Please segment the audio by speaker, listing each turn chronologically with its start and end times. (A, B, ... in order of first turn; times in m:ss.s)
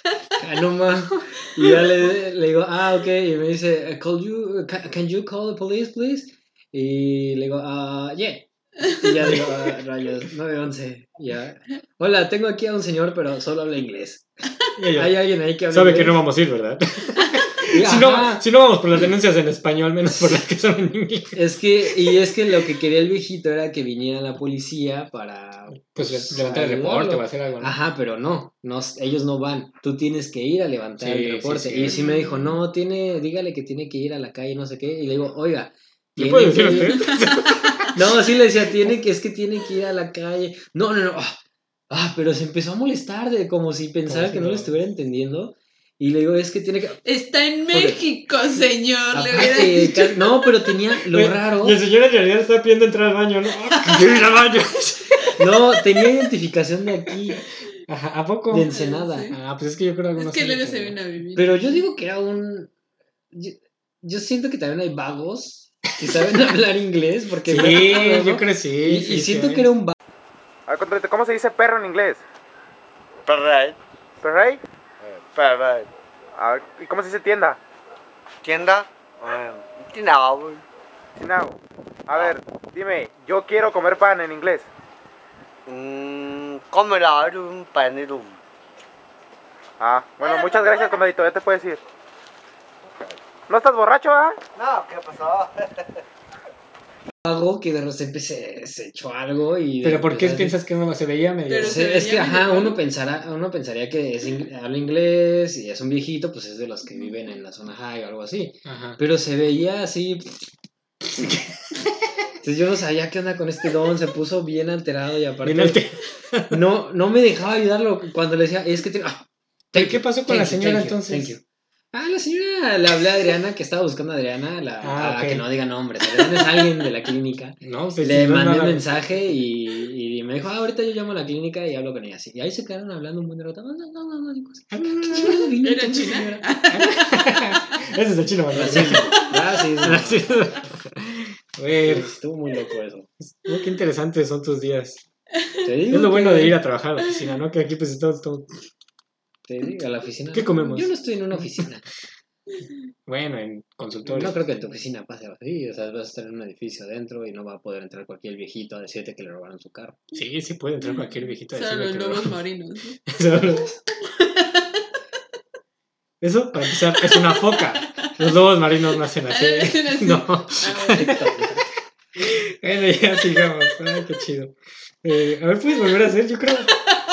0:00.4-0:14.3 A
0:14.8-0:21.4 B
0:14.9-0:16.2 A
0:17.7-0:18.5 A
0:21.3-0:37.1 A
0:25.8-0:27.7 B
0:31.0-0:32.0 B
0:31.8-0:32.6 C
0:36.2-0:37.9 B
0:36.7-0:37.8 C
0:37.9-0:41.4 A
0:41.9-0:47.0 A
0:44.0-0:44.8 B
0:47.0-0:50.7 C
0:47.7-0:48.0 A
0:49.1-0:51.8 A
0:51.1-0:55.3 B
0:55.4-0:57.4 A
0:57.8-0:58.7 B
0:58.5-0:59.4 A
0:58.7-0:59.4 C
0:59.3-1:01.0 B
1:00.2-1:01.6 C
1:01.4-1:02.7 A
1:03.3-1:10.0 A
1:07.4-1:09.7 B
1:10.7-1:12.2 D
1:13.3-1:13.8 E
1:14.2-1:14.6 D
1:15.1-1:15.9 E
1:16.4-1:17.6 D
1:18.4-1:20.6 E
1:21.2-1:24.7 D
1:25.7-1:28.3 E
1:29.8-1:31.8 D
1:30.2-1:30.9 C
1:33.0-1:34.4 D
1:34.6-1:35.8 E
1:37.2-1:40.6 A
1:39.8-1:41.8 B
1:41.5-1:42.8 C
1:41.6-1:50.5 A
1:48.6-1:49.0 B
1:51.2-1:51.4 B
1:52.4-1:55.8 A
1:55.4-1:56.6 B
1:56.5-2:16.4 A
1:59.7-2:01.3 B
2:04.8-2:05.5 B
2:07.6-2:08.9 B
2:14.7-2:15.4 B
2:15.3-2:17.6 C
2:16.7-2:22.1 B
2:18.5-2:20.3 A
2:18.9-2:19.4 C
2:21.8-2:23.1 A
2:23.2-2:25.0 B
2:25.3-2:25.7 C
2:25.6-2:26.6 A
2:25.9-2:28.5 B
2:29.5-2:31.8 A
2:30.3-2:31.5 B
2:33.1-2:34.4 B
2:34.0-2:40.0 A
2:40.1-2:42.4 B
2:41.5-2:43.1 C
2:43.1-2:43.7 B
2:43.9-2:44.9 C
2:46.2-2:51.2 B
2:47.0-2:48.1 C
2:49.3-2:51.2 C
2:50.9-2:51.6 A
2:52.2-2:56.8 B